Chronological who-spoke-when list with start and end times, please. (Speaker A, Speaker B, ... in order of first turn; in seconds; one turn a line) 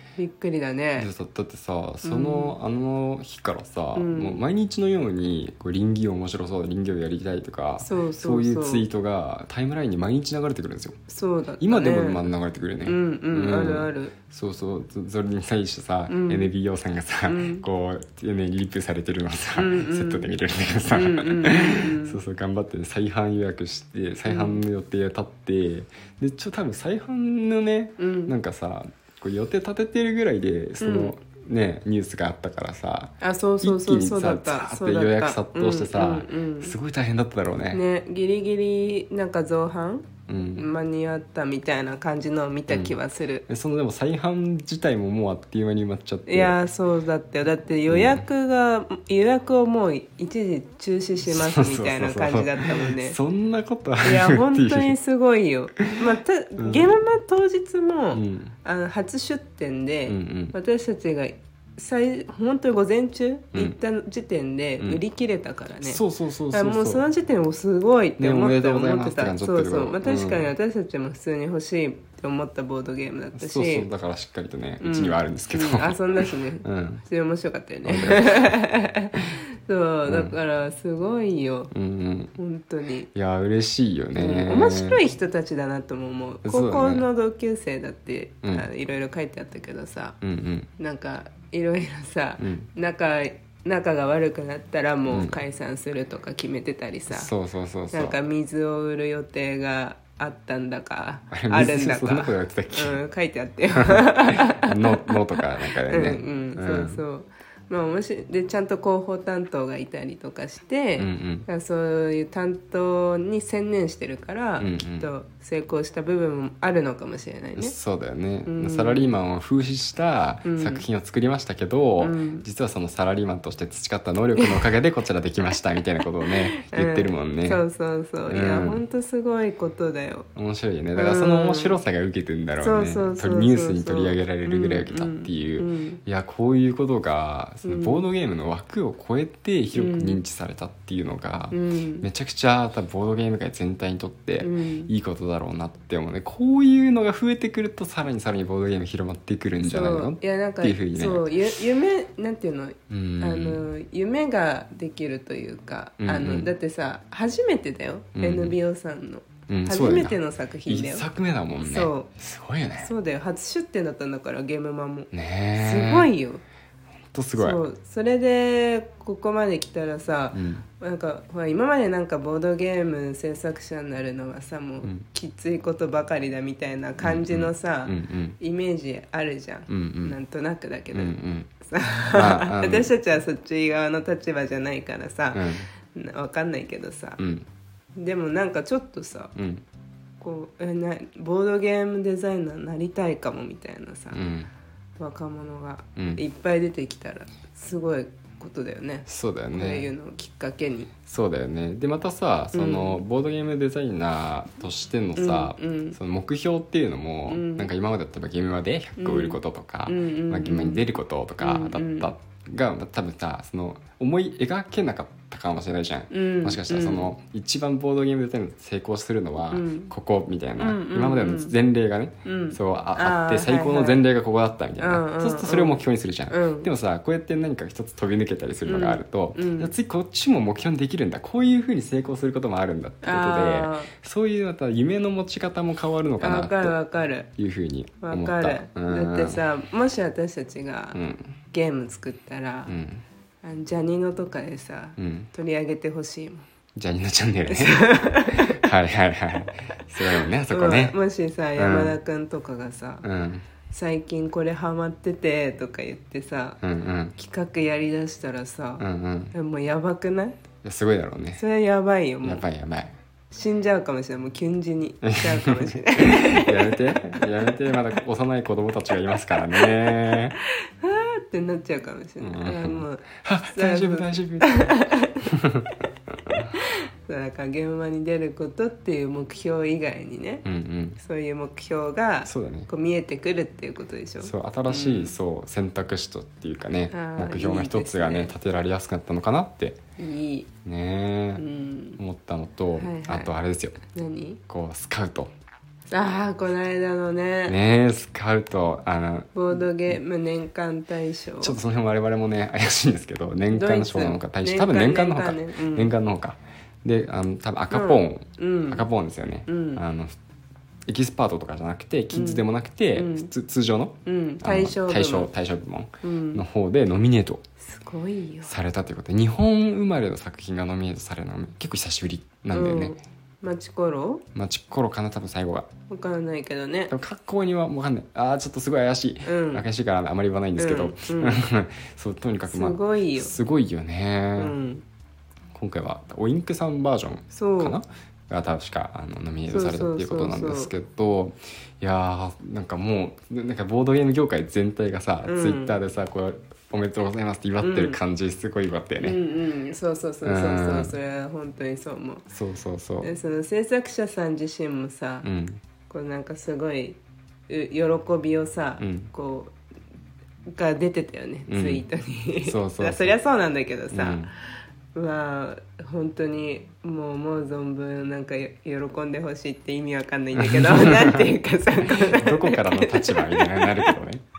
Speaker A: 0.1-1.1
Speaker B: 1.0-10.9
Speaker A: 2.0-2.5
Speaker A: 3.9-4.4
Speaker A: 7.8-8.8
Speaker A: 11.1-12.3
Speaker B: 11.6-37.8
Speaker A: 12.8-14.1
Speaker A: 16.1-16.5
Speaker A: 17.3-17.6
Speaker A: 19.6-20.3
Speaker A: 20.9-22.2
Speaker A: 24.3-24.6
Speaker A: 28.0-28.3
Speaker A: 30.8-31.1
Speaker A: 33.2-36.8
Speaker A: 37.7-43.4
Speaker B: 40.3-40.7
Speaker B: 42.7-46.6
Speaker A: 46.3-53.2
Speaker B: 47.9-48.2
Speaker B: 51.2-54.9
Speaker A: 54.0-73.9
Speaker B: 56.6-57.0
Speaker B: 58.1-58.5
Speaker B: 60.1-60.5
Speaker B: 65.8-67.1
Speaker B: 68.2-70.5
Speaker B: 73.3-77.0
Speaker A: 74.8-81.7
Speaker B: 77.8-78.6
Speaker B: 80.0-80.3
Speaker B: 81.7-82.3
Speaker A: 82.4-83.1
Speaker B: 83.1-85.0
Speaker A: 84.1-90.2
Speaker B: 86.4-87.1
Speaker B: 90.2-90.7
Speaker A: 90.8-97.3
Speaker B: 92.4-92.7
Speaker B: 95.1-95.4
Speaker B: 97.1-98.2
Speaker A: 97.9-117.7
Speaker B: 101.3-103.0
Speaker B: 103.8-107.0
Speaker B: 111.0-111.5
Speaker B: 114.6-115.1
Speaker B: 117.6-127.6
Speaker A: 118.5-119.1
Speaker A: 120.4-120.8
Speaker A: 122.0-122.5
Speaker A: 124.4-124.7
Speaker A: 126.3-130.3
Speaker B: 128.3-128.8
Speaker B: 130.3-151.3
Speaker A: 130.9-131.8
Speaker A: 132.6-136.0
Speaker A: 137.6-138.0
Speaker A: 139.7-140.2
Speaker A: 141.5-142.1
Speaker A: 144.4-144.9
Speaker A: 149.6-161.0
Speaker B: 152.9-153.7
Speaker B: 156.0-156.5
Speaker B: 158.2-158.6
Speaker B: 159.5-162.9
Speaker A: 161.6-162.1
Speaker A: 162.8-166.4
Speaker B: 165.1-166.1
Speaker B: 167.1-167.6
Speaker A: 167.4-187.2
Speaker B: 170.3-170.6
Speaker B: 177.0-178.4
Speaker B: 179.7-180.2
Speaker B: 180.9-181.5
Speaker B: 182.1-182.9
Speaker B: 185.3-185.7
Speaker B: 187.2-187.4
Speaker A: 187.9-189.3
Speaker B: 189.3-189.6
Speaker A: 190.2-194.2
Speaker B: 194.1-194.5
Speaker A: 195.0-200.9
Speaker B: 195.9-196.2
Speaker B: 199.1-199.9
Speaker B: 201.1-236.8
Speaker A: 202.5-203.0
Speaker A: 205.2-206.0
Speaker A: 207.3-207.7
Speaker A: 209.0-210.8
Speaker A: 211.4-212.1
Speaker A: 216.1-217.1
Speaker A: 219.5-219.9
Speaker A: 220.6-221.5
Speaker A: 222.2-224.0
Speaker A: 224.8-226.7
Speaker A: 228.7-229.7
Speaker A: 233.0-233.9
Speaker A: 236.2-237.3
Speaker B: 237.4-239.4
Speaker A: 238.0-241.0
Speaker B: 240.9-241.3
Speaker A: 241.5-242.8
Speaker B: 242.7-243.0
Speaker A: 243.4-246.5
Speaker B: 245.0-245.3
Speaker B: 246.8-250.9
Speaker A: 247.4-248.6
Speaker A: 250.0-253.0
Speaker B: 251.6-252.0
Speaker B: 253.0-253.4
Speaker A: 253.7-256.6
Speaker B: 256.6-257.1
Speaker A: 257.1-260.4
Speaker B: 258.8-259.3
Speaker B: 260.6-261.4
Speaker A: 261.4-262.4
Speaker B: 262.2-262.9
Speaker A: 263.3-267.7
Speaker B: 265.0-270.4
Speaker A: 269.5-275.3
Speaker B: 272.2-275.7
Speaker A: 276.5-280.4
Speaker B: 280.4-281.0
Speaker A: 281.0-285.1
Speaker B: 282.2-282.7
Speaker B: 284.2-289.8
Speaker A: 286.9-288.3
Speaker A: 290.0-290.5
Speaker B: 290.6-291.4
Speaker A: 291.4-292.0
Speaker B: 292.0-293.8
Speaker A: 292.8-293.3
Speaker A: 293.8-294.4
Speaker B: 294.5-295.3
Speaker A: 295.9-297.6
Speaker B: 297.4-299.3
Speaker A: 299.3-301.6
Speaker B: 301.4-310.2
Speaker A: 303.5-305.9
Speaker A: 307.7-308.8
Speaker A: 309.5-309.8
Speaker B: 310.9-317.4
Speaker A: 312.1-312.4
Speaker A: 312.9-313.3
Speaker A: 314.0-315.3
Speaker A: 316.0-316.4
Speaker A: 317.6-318.5
Speaker B: 318.4-323.0
Speaker A: 322.5-324.2
Speaker B: 324.3-325.7
Speaker A: 325.9-326.9
Speaker B: 326.9-334.5
Speaker A: 329.2-329.6
Speaker A: 330.6-331.4
Speaker A: 332.5-333.3
Speaker A: 334.4-334.8
Speaker B: 335.5-349.2
Speaker A: 337.3-337.8
Speaker A: 339.5-340.7
Speaker A: 345.2-345.8
Speaker A: 347.6-348.0
Speaker A: 349.0-352.2
Speaker B: 350.2-350.9
Speaker B: 352.3-353.1
Speaker A: 353.0-355.3
Speaker B: 355.2-355.6
Speaker A: 355.9-357.0
Speaker A: 357.5-359.5
Speaker B: 358.8-359.1
Speaker A: 360.5-364.3
Speaker B: 361.5-361.8
Speaker B: 362.4-363.1
Speaker B: 363.9-364.3
Speaker A: 364.9-374.0
Speaker B: 370.4-371.3
Speaker B: 371.8-374.2